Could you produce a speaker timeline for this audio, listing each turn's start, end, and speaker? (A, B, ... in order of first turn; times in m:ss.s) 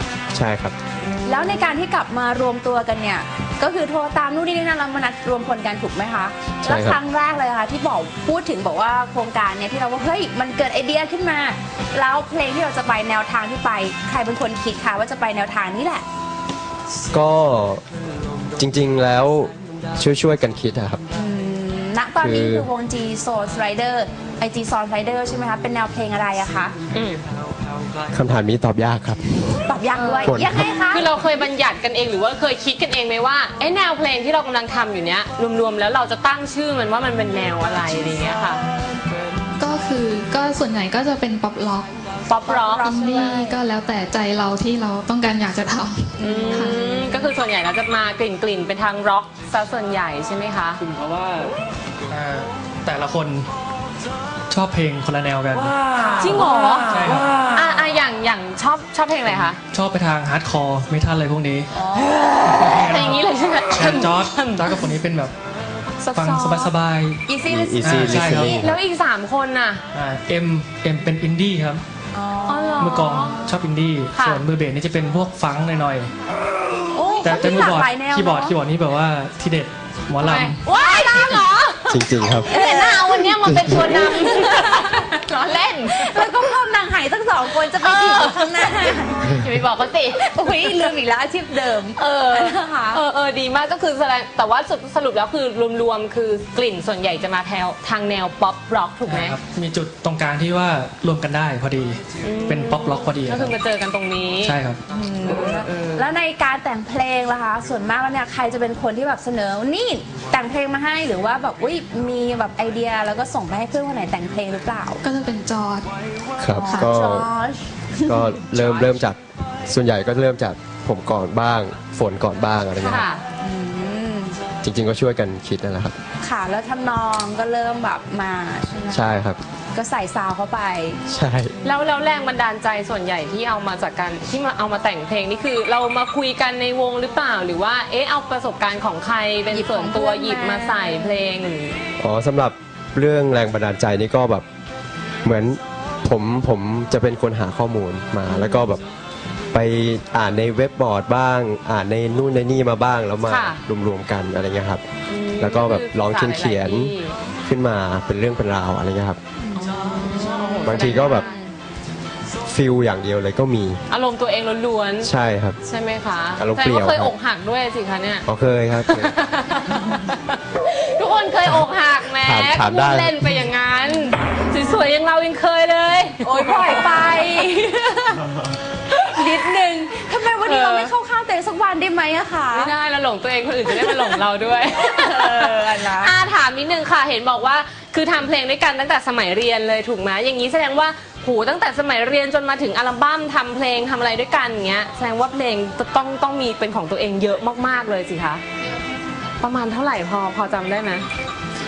0:00.3-0:00.8 A
0:01.0-0:01.7 B
0:01.3-0:16.0 C
0:06.6-0:07.0 A
0:17.1-0:17.8 A
0:18.6-0:21.0 A
0:21.1-0:26.8 C
0:22.2-0:22.7 A
0:26.9-0:27.2 B
0:28.1-0:29.6 A
0:29.7-0:31.1 C
0:29.9-0:38.6 B
0:30.2-0:30.8 A
0:39.6-0:42.0 D
0:42.3-0:43.1 B
0:42.5-0:43.6 C
0:42.8-0:46.8 D
0:46.2-0:46.9 C
0:46.2-0:50.8 B
0:50.8-0:51.6 E
0:52.1-0:53.5 E
0:54.5-0:57.5 E
0:56.2-0:59.6 B
0:59.7-1:05.3 E
1:01.7-1:02.2 C
1:02.5-1:04.8 B
1:06.0-1:06.7 B
1:06.2-1:07.3 E
1:07.3-1:08.6 C
1:07.4-1:08.8 A
1:07.8-1:08.6 E
1:08.5-1:09.8 B
1:09.9-1:11.8 E
1:12.1-1:12.8 C
1:12.5-1:13.5 B
1:12.8-1:16.1 E
1:14.2-1:14.4 B
1:16.9-1:18.5 C
1:17.2-1:20.6 E
1:20.2-1:26.3 B
1:20.7-1:21.6 C
1:21.9-1:22.5 A
1:22.4-1:23.3 C
1:23.4-1:24.1 A
1:23.9-1:25.0 C
1:25.9-1:29.4 C
1:27.8-1:30.2 B
1:30.2-1:33.0 C
1:32.0-1:39.4 B
1:39.1-1:43.6 E
1:42.2-1:44.6 B
1:44.4-1:44.8 E
1:44.9-1:55.0 C
1:45.3-1:46.1 B
1:55.0-1:55.9 D
1:56.4-1:57.3 A
1:56.5-1:58.9 C
1:56.6-1:56.9 D
1:58.1-2:03.1 A
2:02.8-2:03.2 B
2:02.9-2:04.4 C
2:04.6-2:06.0 A
2:06.2-2:09.1 C
2:08.9-2:09.4 A
2:09.7-2:11.0 C
2:11.1-2:11.6 A
2:11.6-2:21.8 B
2:19.5-2:21.2 C
2:22.0-2:24.5 A
2:25.2-2:28.8 A
2:28.3-2:28.7 B
2:29.5-2:34.8 A
2:33.3-2:33.6 B
2:35.1-2:37.2 B
2:35.4-2:36.9 A
2:37.5-2:39.2 A
2:39.4-2:41.5 C
2:39.6-2:41.4 B
2:40.6-2:41.3 A
2:42.5-2:43.8 A
2:43.9-2:45.1 B
2:45.0-2:45.6 A
2:45.6-2:48.3 B
2:46.4-2:47.1 A
2:48.3-2:49.1 A
2:48.8-2:57.2 B
2:52.2-2:53.3 A
2:56.2-2:58.3 C
2:58.9-3:02.7 C
3:00.4-3:00.9 B
3:02.5-3:18.4 B
3:03.7-3:04.2 C
3:04.8-3:06.2 C
3:19.4-3:21.1 B